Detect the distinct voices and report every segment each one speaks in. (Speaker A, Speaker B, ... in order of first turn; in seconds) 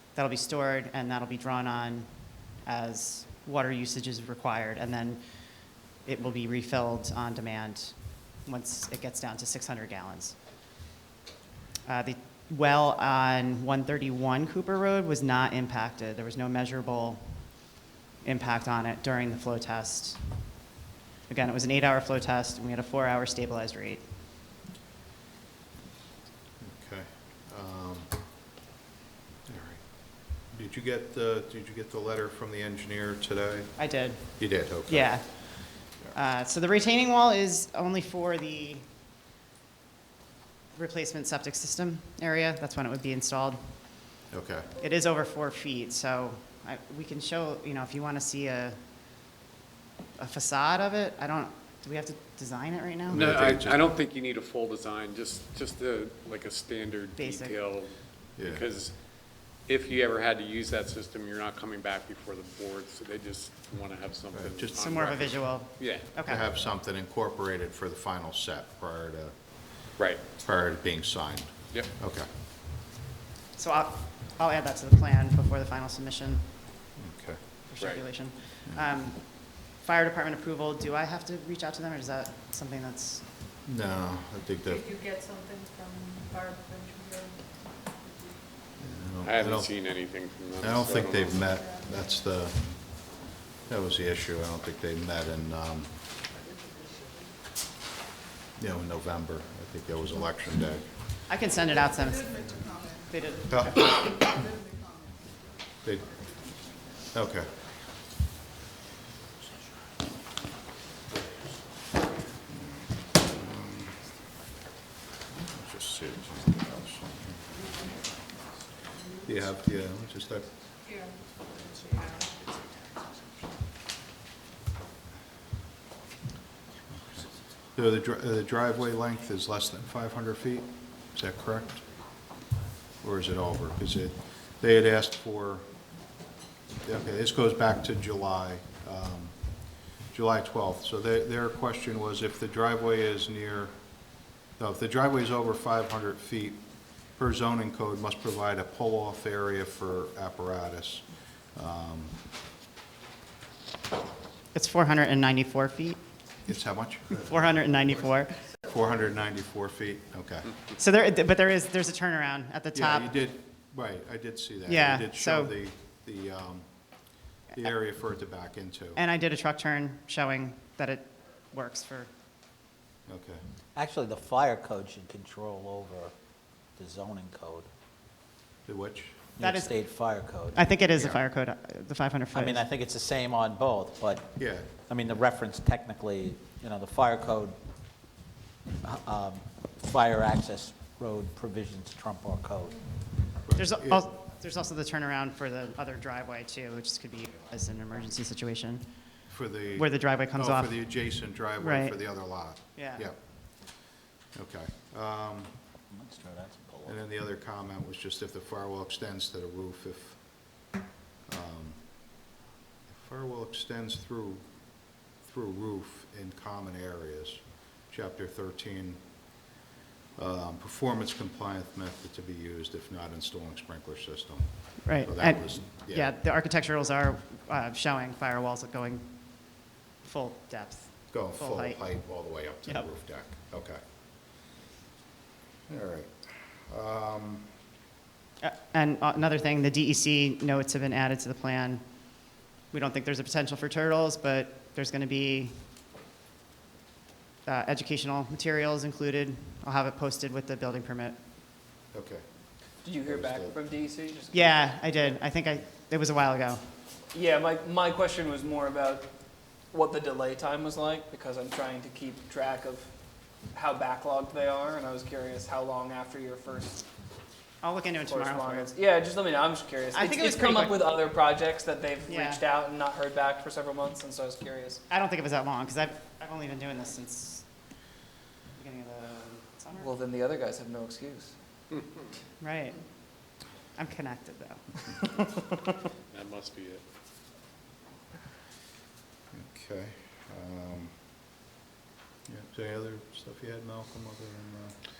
Speaker A: 0.1-2.1, 2.6-5.2, 6.0-10.4, 11.8-17.5, 18.2-20.4, 21.3-24.0, 33.8-38.9, 40.7-44.2, 44.8-48.8, 50.2-53.2, 57.2-57.6, 64.8-66.4, 73.5-76.7, 77.7-83.2, 101.3-102.4, 103.0-104.0, 154.5-156.0, 157.1-158.4, 160.8-163.1, 164.7-165.5, 168.9-172.1, 179.4-179.9, 180.5-182.6, 193.6-198.9, 199.8-201.0, 201.6-202.0, 202.7-203.1, 224.8-232.9, 238.4-245.7, 247.4-251.2, 254.3-256.6, 267.6-268.7, 269.9-270.9, 272.1-272.4, 274.9-277.5, 278.5-280.0, 282.4-282.8, 283.8-285.3
Speaker B: 26.6-28.2, 29.4-36.1, 44.3-44.7, 53.1-53.9, 58.4-58.6, 64.3-64.8, 66.0-72.3, 77.0-77.4, 83.6-85.0, 88.8-89.7, 90.6-96.0, 98.6-101.0, 103.5-104.2, 105.8-106.2, 107.1-107.5, 112.5-114.0, 115.5-117.5, 119.2-120.5, 127.7-131.8, 133.0-135.8, 136.8-152.2, 156.4-157.3, 158.6-160.5, 162.7-167.0, 167.5-169.0, 173.1-173.4, 178.7-179.2, 184.4-184.7, 193.4-194.1, 199.3-203.2, 203.7-205.5, 206.8-210.5, 211.3-211.8, 212.9-219.2, 220.2-226.1, 231.1-233.8, 235.7-237.5, 251.9-252.2, 253.0-253.6, 289.3-290.9, 292.3-294.8
Speaker C: 53.1-66.3, 89.2-91.2, 286.1-286.8
Speaker D: 84.7-87.5, 121.9-122.2
Speaker E: 173.7-176.1, 176.8-177.7, 179.4-181.2, 182.3-187.5, 188.8-192.8, 205.9-207.0
Speaker F: 252.8-254.7, 257.1-259.1, 259.7-262.9, 263.5-266.8, 268.0-274.8, 279.8-281.3